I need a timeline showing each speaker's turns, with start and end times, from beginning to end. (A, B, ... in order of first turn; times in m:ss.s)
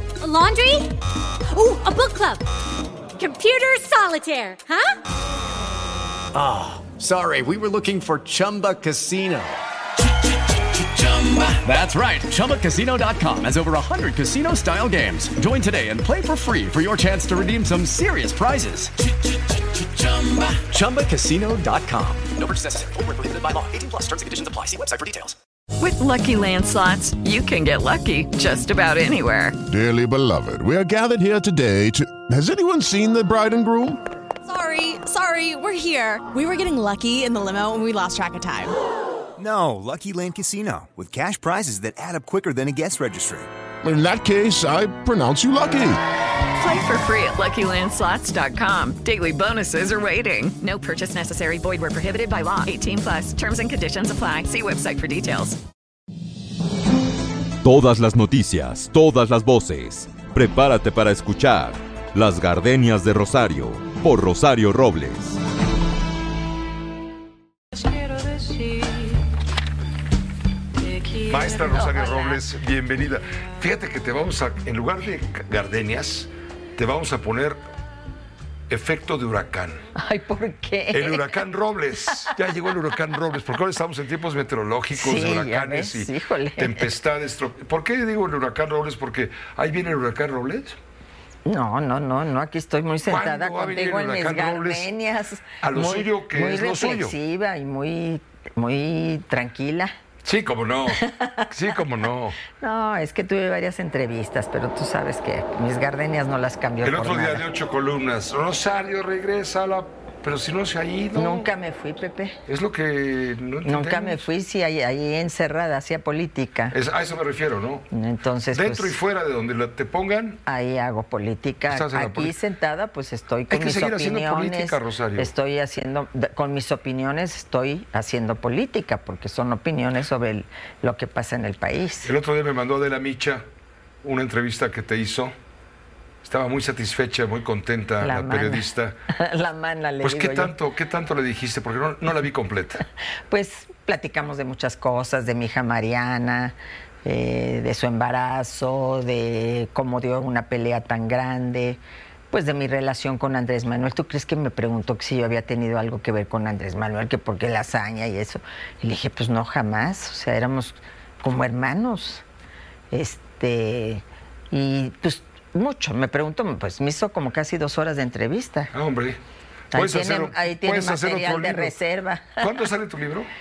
0:00.2-0:01.0 A
0:01.5-0:02.4 A
0:03.2-0:04.9 A
0:06.3-0:09.6 B
0:10.8-0:18.9 B
0:20.0-0:25.3 B
0:25.8-0:29.6 C
0:29.7-0:34.0 D
0:34.4-0:38.7 E
0:39.4-0:43.5 F
0:43.8-0:46.0 D
0:46.5-0:55.6 C
0:57.6-1:05.4 G
1:11.1-1:17.6 H
1:11.7-1:12.2 I
1:18.7-1:19.8 H
1:20.0-1:21.4 I
1:20.9-1:30.8 H
1:24.9-1:27.0 I
1:31.4-1:39.9 I
1:33.0-1:34.9 H
1:35.6-1:37.2 H
1:40.2-1:42.4 H
1:40.9-1:41.5 I
1:42.6-1:47.4 I
1:46.8-1:51.5 H
1:51.1-1:52.4 I
1:52.5-1:54.2 H
1:53.6-1:56.8 I
1:56.7-1:57.9 H
1:57.9-1:59.0 I
1:58.5-2:00.4 H
2:00.4-2:12.1 I
2:01.7-2:02.3 H
2:03.5-2:05.3 H
2:12.0-2:13.4 H
2:14.0-2:15.3 H
2:16.2-2:19.0 H
2:18.0-2:20.5 I
2:20.0-2:22.8 H
2:23.3-2:42.2 I
2:42.9-2:48.7 I
2:48.7-2:49.2 H
2:49.7-2:52.5 I
2:49.7-2:51.8 H
2:52.4-2:53.3 H